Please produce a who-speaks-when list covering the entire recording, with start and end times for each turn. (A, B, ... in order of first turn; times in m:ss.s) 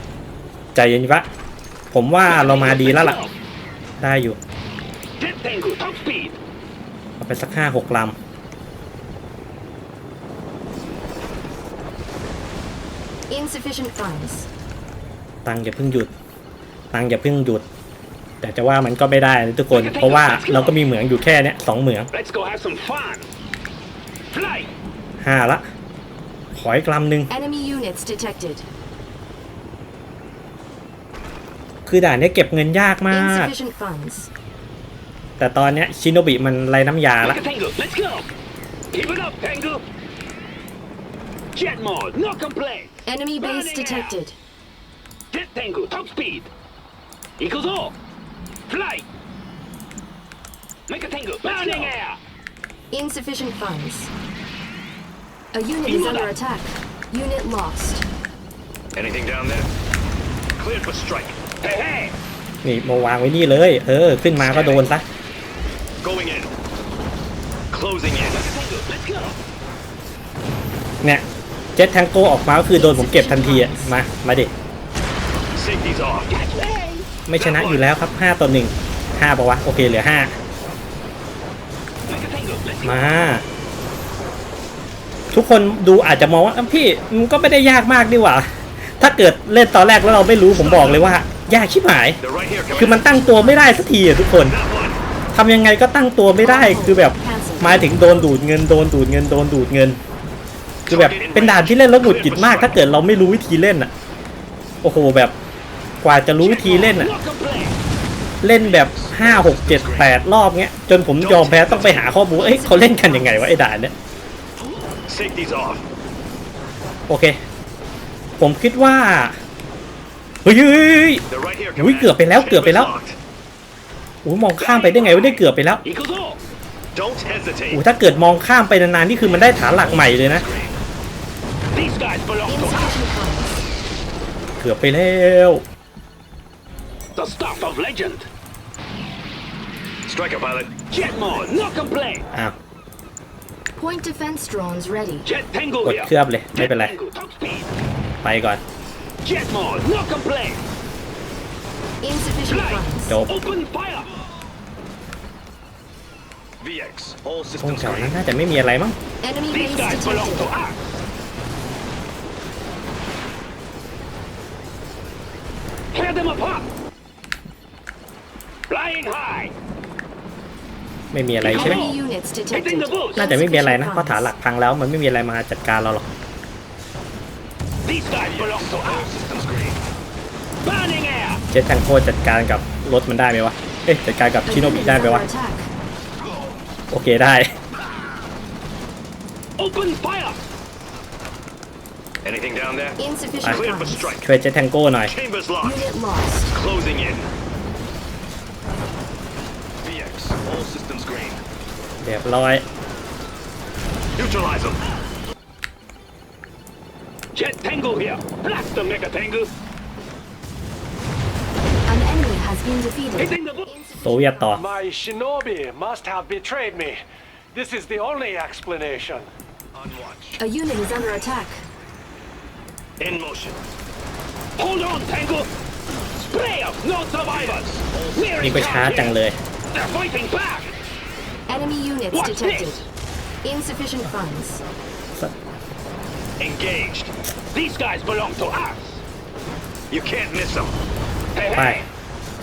0:00.8-0:01.3 A
0:01.9-0:03.2 A
0:02.2-0:03.3 B
0:04.0-0:04.4 A
0:05.2-0:06.4 B
0:07.2-0:08.2 A
0:13.3-0:14.5 C
0:15.4-0:16.1 A
0:16.9-0:17.6 A
0:18.4-0:22.1 A
0:19.7-0:20.8 B
0:22.1-0:23.3 B
0:24.3-0:24.7 B
0:25.2-0:25.7 A
0:26.5-0:27.3 A
0:27.3-0:28.7 C
0:31.9-0:33.5 A
0:33.1-0:34.3 C
0:35.4-0:37.4 A
0:37.2-0:38.2 B
0:38.9-0:39.8 B
0:41.6-0:44.2 B
0:43.1-0:44.4 C
0:45.3-0:46.5 B
0:47.4-0:47.9 B
0:48.7-0:49.0 B
0:50.9-0:52.2 B
0:51.6-0:51.9 D
0:52.9-0:54.1 C
0:55.5-0:58.1 C
0:55.9-0:56.3 B
0:59.0-0:59.7 D
1:00.6-1:01.4 D
1:01.6-1:02.2 B
1:02.6-1:05.0 A
1:04.4-1:04.8 D
1:06.0-1:06.5 D
1:07.7-1:08.4 D
1:08.3-1:09.4 B
1:11.0-1:14.5 A
1:12.7-1:14.0 C
1:15.5-1:16.3 D
1:16.3-1:17.7 B
1:17.3-1:20.4 A
1:17.4-1:17.8 D
1:22.1-1:23.0 B
1:22.8-1:23.4 A
1:25.3-1:32.2 A
1:30.5-1:31.1 C
1:32.2-1:32.9 D
1:32.7-1:34.6 A
1:32.8-1:33.8 C
1:34.4-1:35.0 D
1:35.3-1:40.0 A
1:36.4-1:38.5 C
1:40.9-1:42.8 D
1:40.9-1:43.9 A
1:44.8-1:45.4 A
1:46.0-1:47.1 A
1:46.4-1:47.8 B
1:48.4-1:53.9 A
1:48.6-1:50.2 D
1:51.2-1:52.2 D
1:52.3-1:53.6 C
1:55.1-1:55.8 D
1:57.1-1:57.4 A
1:58.4-1:59.4 A
2:00.4-2:01.2 A
2:01.3-2:03.2 D
2:01.8-2:02.9 A
2:04.2-2:05.8 A
2:04.6-2:06.4 B
2:06.9-2:07.8 D
2:07.7-2:10.5 A
2:09.6-2:10.8 D
2:11.7-2:13.0 B
2:12.5-2:13.7 C
2:14.6-2:15.6 A
2:17.2-2:18.3 B
2:20.1-2:20.8 D
2:20.9-2:22.2 B
2:23.7-2:25.3 C
2:25.2-2:27.7 B
2:25.8-2:27.0 A
2:28.2-2:28.6 A
2:29.2-2:30.6 B
2:32.0-2:33.2 C
2:32.5-2:34.1 B
2:33.1-2:33.3 A
2:36.6-2:38.2 D
2:37.6-2:39.0 A
2:39.2-2:40.5 C
2:39.5-2:40.8 B
2:45.9-2:46.7 B
2:48.7-2:49.5 B
2:51.1-2:51.8 A
2:51.4-2:52.0 B
2:51.5-2:54.3 C
2:52.5-2:53.2 B
2:53.2-2:56.1 A
2:57.9-2:59.1 B
2:58.2-2:59.8 D
3:00.6-3:01.4 B
3:01.5-3:05.3 A
3:04.5-3:05.7 C
3:06.9-3:07.5 A
3:09.6-3:10.4 B
3:12.2-3:14.2 D
3:13.0-3:14.2 C
3:13.4-3:15.1 A
3:15.0-3:15.9 D
3:15.6-3:16.5 C
3:16.5-3:17.3 D
3:19.8-3:21.4 D
3:22.0-3:22.7 A
3:24.2-3:24.9 D
3:27.4-3:29.5 B
3:31.9-3:34.7 C
3:33.2-3:33.8 B
3:34.0-3:34.6 A
3:34.5-3:37.0 E
3:37.5-3:39.3 E
3:39.7-3:40.4 D
3:40.4-3:41.7 C
3:43.0-3:43.6 D
3:44.6-3:45.5 B
3:46.2-3:49.2 B
3:47.3-3:49.0 D
3:48.4-3:49.4 A
3:49.7-3:50.7 B
3:51.5-3:52.8 C
3:52.1-3:52.9 B
3:53.4-3:54.6 C
3:56.4-3:57.1 D
3:57.5-3:59.0 B
3:59.9-4:00.8 D
4:01.4-4:01.8 B
4:01.5-4:01.8 A